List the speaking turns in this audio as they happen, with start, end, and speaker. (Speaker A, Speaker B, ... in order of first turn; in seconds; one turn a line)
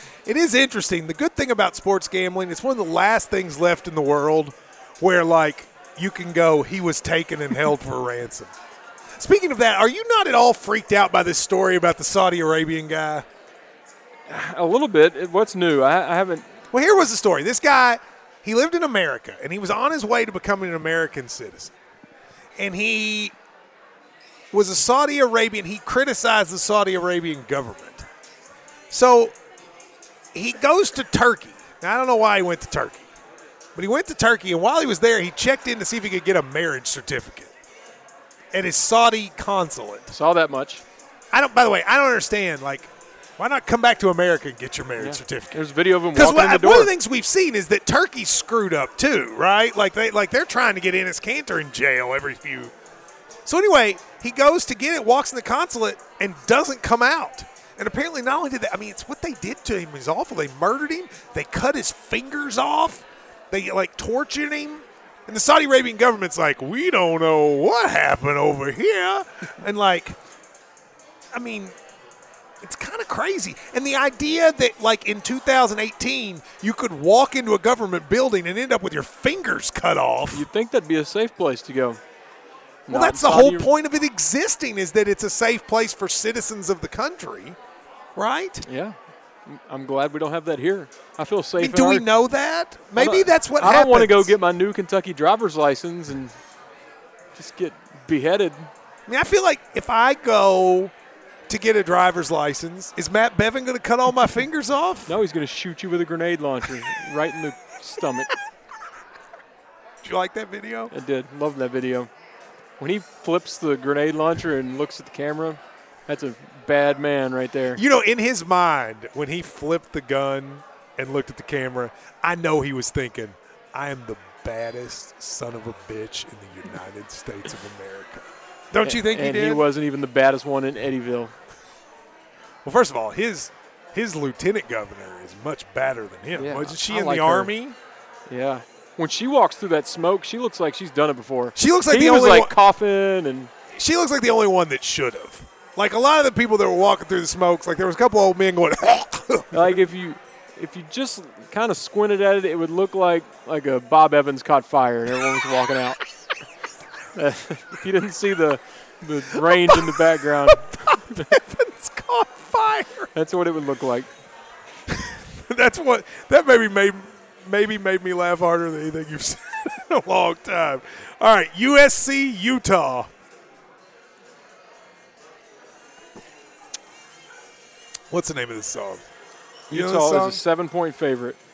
Speaker A: 0.2-8.5
Speaker A: 9.2-13.2
Speaker B: 14.3-16.4
Speaker A: 16.7-21.7
Speaker A: 22.6-23.3
Speaker A: 24.5-28.1
Speaker A: 28.9-29.3
Speaker A: 30.3-33.1
Speaker A: 33.7-37.5
Speaker A: 38.5-40.1
Speaker B: 40.1-40.8
Speaker A: 41.3-45.6
Speaker B: 45.0-46.9
Speaker A: 46.1-52.7
Speaker A: 53.5-70.2
Speaker A: 71.3-71.8
Speaker A: 72.6-80.5
Speaker B: 80.3-82.0
Speaker B: 82.9-83.7
Speaker A: 82.9-87.6
Speaker A: 88.2-88.6
Speaker B: 88.6-92.1
Speaker A: 91.6-94.3
Speaker B: 93.0-96.3
Speaker B: 97.3-98.7
Speaker A: 99.1-100.9
Speaker A: 101.5-105.1
Speaker B: 105.1-108.3
Speaker A: 110.0-110.9
Speaker B: 110.9-112.1
Speaker B: 112.8-117.8
Speaker A: 117.7-129.7
Speaker B: 128.8-131.3
Speaker A: 132.6-137.8
Speaker B: 136.3-137.5
Speaker B: 138.3-143.5
Speaker A: 141.6-142.6
Speaker A: 143.7-149.7
Speaker B: 149.5-156.0
Speaker B: 157.1-161.3
Speaker A: 159.5-163.1
Speaker B: 163.1-164.1
Speaker A: 164.9-173.1
Speaker A: 178.1-179.0
Speaker B: 179.7-181.4
Speaker A: 179.7-180.4